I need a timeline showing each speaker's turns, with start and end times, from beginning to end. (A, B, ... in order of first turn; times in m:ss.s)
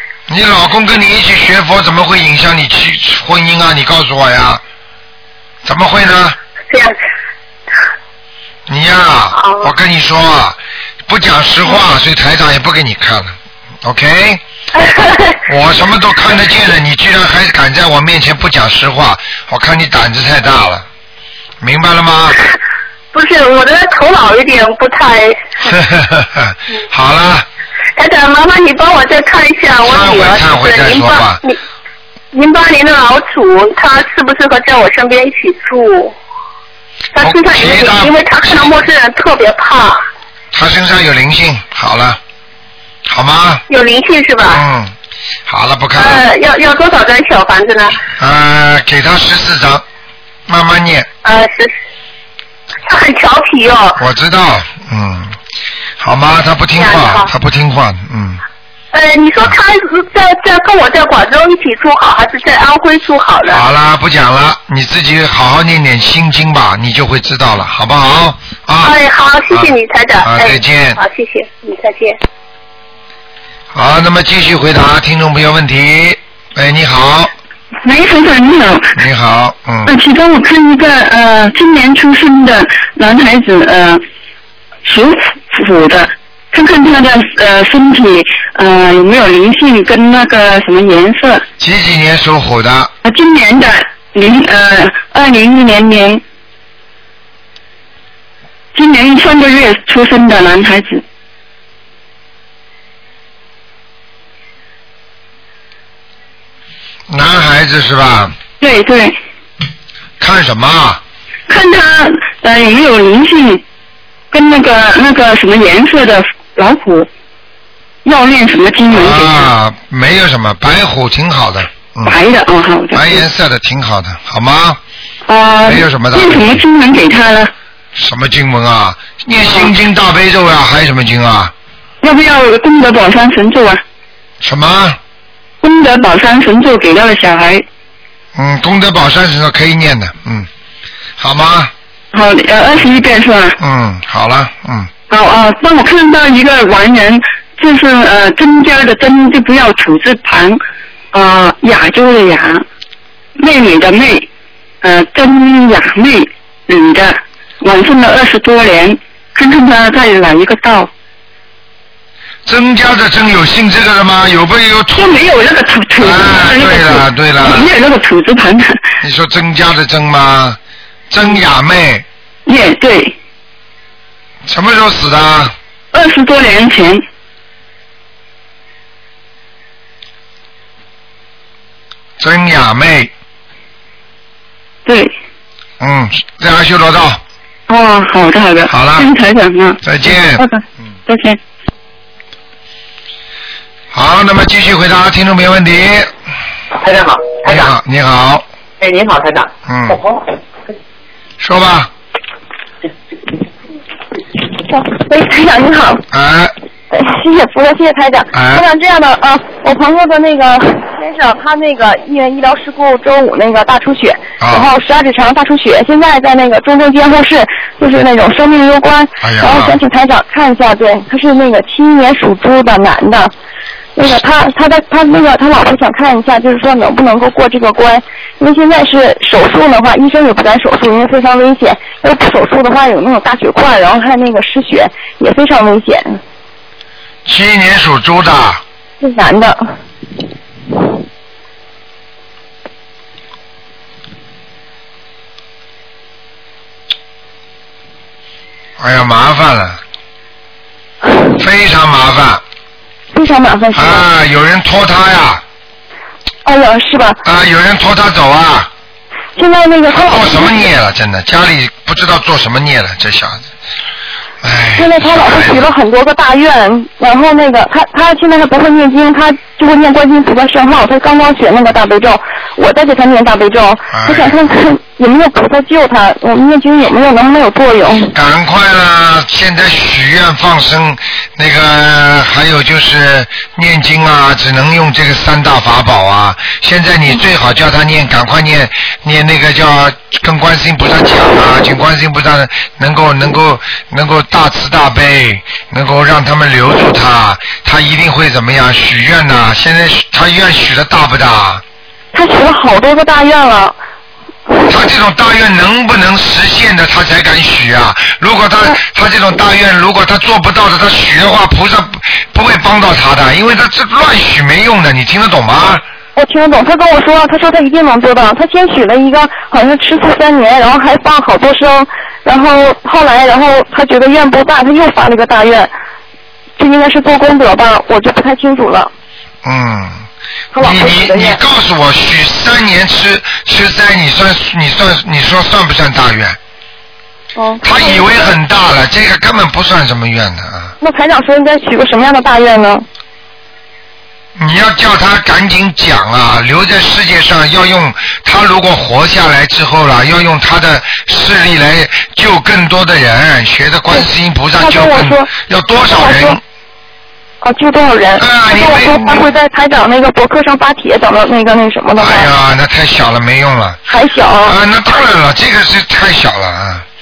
0:00.3-0:04.6 A
0:05.6-0:06.4 A
0:08.7-0:14.4 A
0:09.4-0:09.7 B
0:14.7-0:15.4 B
0:15.5-0:20.9 A
0:21.6-0:22.4 A
0:23.1-0:25.4 B
0:25.6-0:27.5 A
0:28.0-0:31.6 B
0:29.8-0:31.4 A
0:32.3-0:36.2 B
0:37.2-0:40.0 B
0:37.2-0:38.7 A
0:40.5-0:42.2 A
0:43.1-0:43.6 A
0:43.7-0:44.6 B
0:44.4-0:44.9 A
0:45.5-0:46.2 A
0:46.0-0:48.0 B
0:48.2-0:49.8 A
0:50.5-0:51.1 A
0:51.2-0:51.7 B
0:52.9-0:54.0 B
0:54.0-0:55.4 A
0:56.0-0:58.4 A
0:56.8-0:57.3 B
0:58.9-1:03.6 B
1:03.4-1:09.0 A
1:08.8-1:12.2 B
1:09.5-1:11.0 A
1:13.7-1:17.3 A
1:17.8-1:18.9 C
1:19.0-1:19.9 A
1:19.9-1:24.0 C
1:24.8-1:31.4 C
1:31.6-1:32.9 A
1:33.0-1:36.2 C
1:38.7-1:41.0 C
1:47.1-1:48.4 A
1:48.6-1:49.2 C
1:50.2-1:51.0 A
1:51.5-1:53.6 C
1:54.3-1:57.1 C
1:58.0-1:59.5 C
1:58.9-2:02.2 A
2:02.0-2:03.2 C
2:02.9-2:04.8 A
2:05.3-2:07.5 C
2:05.6-2:06.6 A
2:08.0-2:11.5 A
2:09.5-2:09.7 C
2:12.0-2:13.8 C
2:14.4-2:15.0 A
2:15.6-2:17.6 C
2:18.4-2:20.5 A
2:21.2-2:21.7 A
2:22.1-2:23.6 C
2:23.6-2:24.9 A
2:25.1-2:30.6 C
2:31.1-2:32.6 C
2:33.4-2:34.3 C
2:34.8-2:40.9 C
2:42.5-2:45.2 A
2:44.9-2:48.8 C
2:46.0-2:47.7 A
2:49.0-2:50.6 A
2:51.1-2:52.0 A
2:52.5-2:53.2 C
2:54.5-2:55.5 A
2:55.9-2:57.0 C
3:02.2-3:03.1 A
3:04.9-3:05.1 C
3:05.8-3:07.2 A
3:07.7-3:11.4 C
3:08.7-3:09.1 A
3:09.8-3:10.5 A
3:13.9-3:16.1 A
3:16.8-3:17.7 D
3:17.5-3:18.4 A
3:18.8-3:20.2 D
3:19.7-3:20.0 A
3:21.4-3:21.9 A
3:24.7-3:26.0 E
3:26.1-3:26.5 A
3:26.9-3:43.3 E
3:28.3-3:28.7 A
3:34.4-3:34.7 A
3:39.2-3:39.8 A
3:44.0-3:56.2 E
3:57.2-3:58.6 A
3:59.0-3:59.7 E
4:08.8-4:09.8 A
4:11.4-4:12.4 A
4:13.1-4:14.1 E
4:13.7-4:15.4 A
4:16.4-4:17.2 E
4:17.2-4:18.7 A
4:19.4-4:20.7 E
4:19.9-4:23.5 A
4:24.4-4:25.7 A
4:24.8-4:38.1 E
4:33.9-4:34.4 A
4:38.1-5:01.6 A
5:02.1-5:03.8 E
5:04.7-5:15.8 A
5:16.2-5:25.7 E
5:26.6-5:28.9 E
5:29.4-5:30.0 A
5:30.5-5:31.4 E
5:30.6-5:36.4 A
5:37.4-5:38.4 E
5:37.6-5:40.7 A
5:40.8-5:42.9 E
5:44.4-5:56.4 A
5:54.6-5:55.3 E
5:55.9-5:56.4 E
5:57.4-6:02.3 E
5:58.2-5:59.3 A
6:02.0-6:03.8 A
6:03.9-6:04.6 E
6:04.4-6:06.8 A